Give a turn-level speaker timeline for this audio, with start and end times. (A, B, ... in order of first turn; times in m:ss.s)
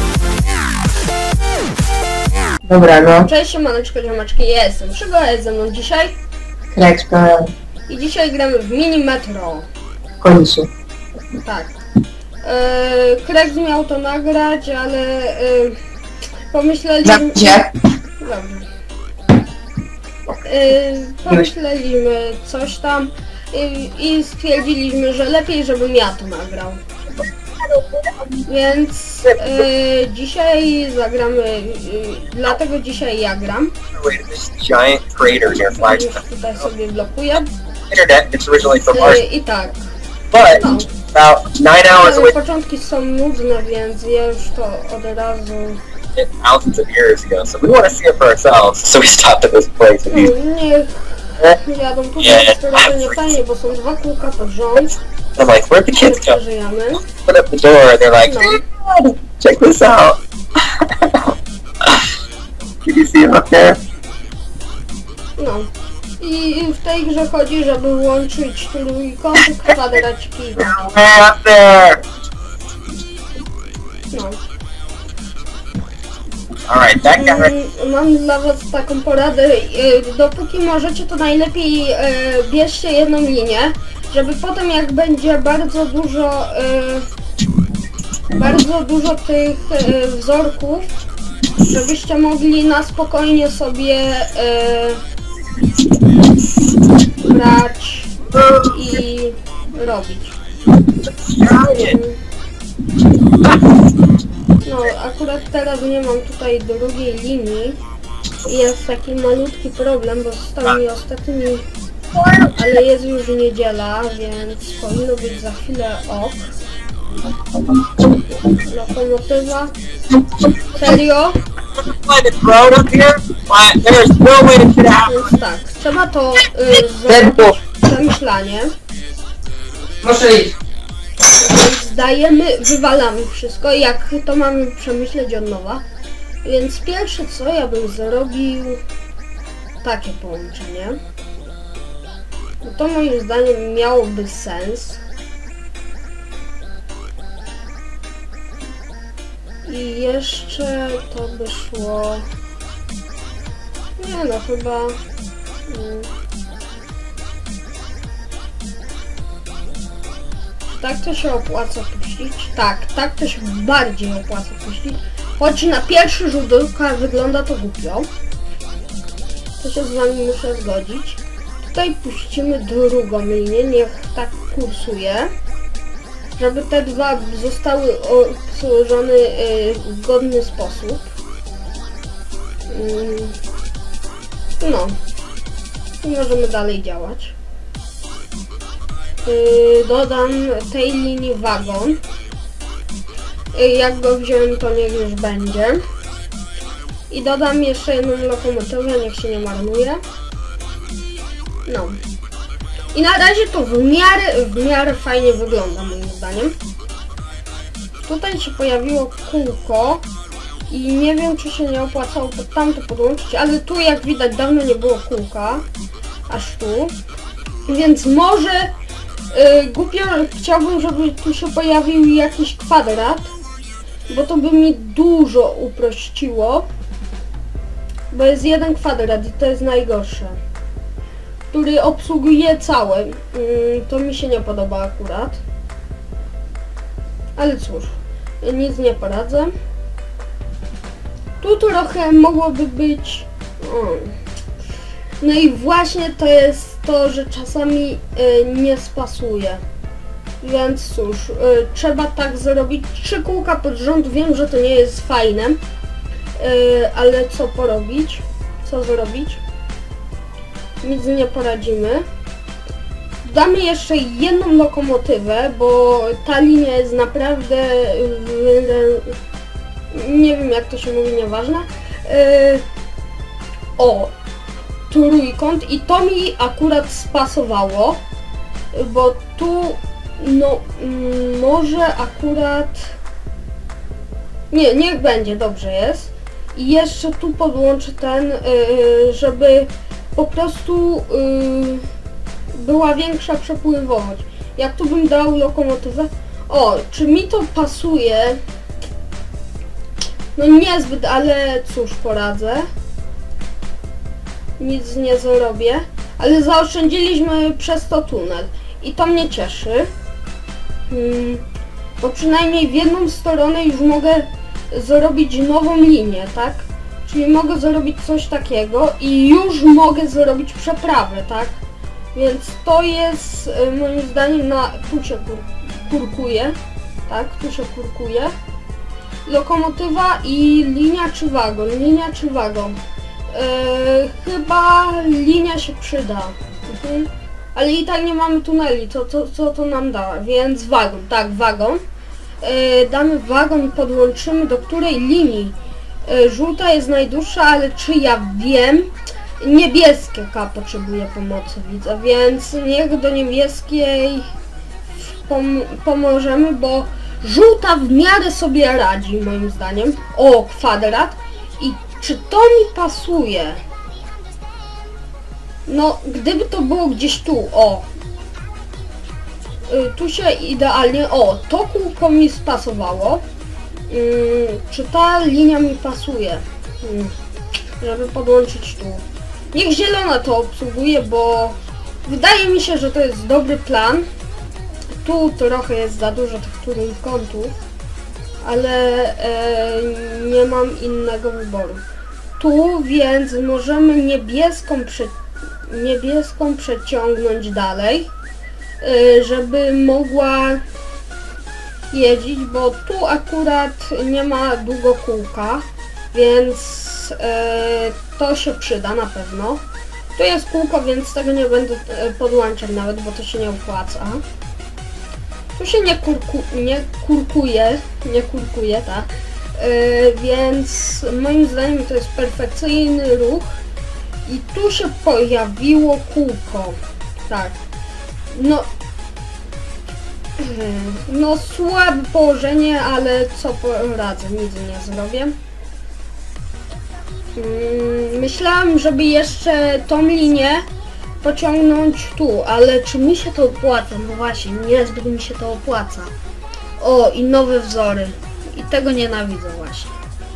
0:02.6-0:03.3 A
0:03.2-0:06.1 B
0:06.7-0:07.5 A
0:07.9-0:09.7 B
0:10.2-0:10.7 A
0:11.4-0:11.8 B
0:12.4-0:15.8 B
0:16.5-0:17.6 B
0:17.0-0:17.7 A
0:18.2-0:18.7 B
0:20.4-0:26.8 B
0:28.5-0:33.7 B
0:33.9-0:36.2 C
0:35.7-0:37.5 B
0:37.9-0:39.2 C
0:38.9-0:39.9 B
0:40.3-0:42.3 C
0:40.5-0:40.9 B
0:42.0-0:45.8 B
0:46.2-0:50.3 C
0:50.1-0:54.9 B
0:52.2-0:53.2 C
0:55.4-0:56.4 C
0:55.9-0:57.0 B
0:57.1-1:00.2 C
0:58.2-0:58.6 B
1:00.8-1:01.2 C
1:02.8-1:03.8 C
1:05.4-1:05.7 B
1:06.2-1:10.7 B
1:10.6-1:12.0 C
1:14.1-1:14.4 B
1:16.7-1:17.5 C
1:17.2-1:27.1 B
1:28.3-1:30.9 B
1:31.6-1:35.0 B
1:37.2-1:38.1 B
1:38.4-1:38.7 C
1:38.7-1:40.4 B
1:41.0-1:42.0 C
1:41.7-1:42.2 B
1:44.6-1:47.8 B
1:48.4-1:51.7 B
1:52.2-1:52.5 C
1:52.6-1:56.5 B
1:58.6-1:59.7 B
2:00.8-2:01.4 B
2:01.8-2:05.3 C
2:05.1-2:08.7 B
2:07.1-2:07.5 A
2:10.0-2:10.5 A
2:11.3-2:15.8 B
2:16.4-2:18.8 B
2:19.8-2:21.0 B
2:22.6-2:25.0 B
2:29.6-2:32.3 B
2:34.0-2:35.0 B
2:35.7-2:36.1 B
2:40.7-2:48.1 B
2:49.6-2:55.3 B
2:56.4-3:01.1 B
3:02.7-3:03.4 B
3:04.6-3:05.0 B
3:06.0-3:07.4 B
3:09.2-3:12.0 B
3:13.5-3:15.8 B
3:17.1-3:20.0 B
3:21.7-3:22.0 B
3:22.9-3:26.6 B
3:28.0-3:30.0 B
3:30.7-3:35.6 B
3:36.3-3:36.9 B
3:37.7-3:38.7 B
3:39.3-3:43.3 B
3:44.1-3:46.7 B
3:48.1-3:50.4 B
3:51.5-3:55.4 B
3:57.4-3:59.5 B
4:01.4-4:04.2 B
4:05.2-4:09.6 B
4:10.4-4:15.6 B
4:16.4-4:19.4 B
4:20.8-4:22.0 B
4:23.2-4:29.2 B
4:29.9-4:32.6 B
4:33.8-4:34.1 B
4:34.9-4:38.0 B
4:38.7-4:43.0 B
4:44.5-4:51.9 B
4:52.5-4:58.4 B
5:00.4-5:02.7 B
5:04.6-5:09.9 B
5:10.9-5:11.4 B
5:12.0-5:21.6 B
5:22.2-5:26.6 B
5:27.1-5:28.3 B
5:29.3-5:32.8 B
5:33.3-5:41.8 B
5:42.4-5:45.6 B
5:46.1-5:54.3 B
5:54.9-6:03.6 B
6:05.7-6:07.9 B
6:09.7-6:13.2 B
6:13.9-6:17.1 B
6:17.8-6:24.0 B
6:25.0-6:27.6 B
6:28.4-6:31.8 B
6:32.4-6:35.1 B
6:35.7-6:38.1 B
6:38.8-6:40.6 B
6:41.9-6:49.6 B
6:50.2-6:54.2 B
6:55.6-7:03.6 B
7:04.3-7:06.8 B
7:07.3-7:07.6 B
7:08.3-7:08.7 B
7:10.4-7:15.4 B
7:17.4-7:20.7 B
7:21.2-7:26.1 B
7:26.8-7:30.0 B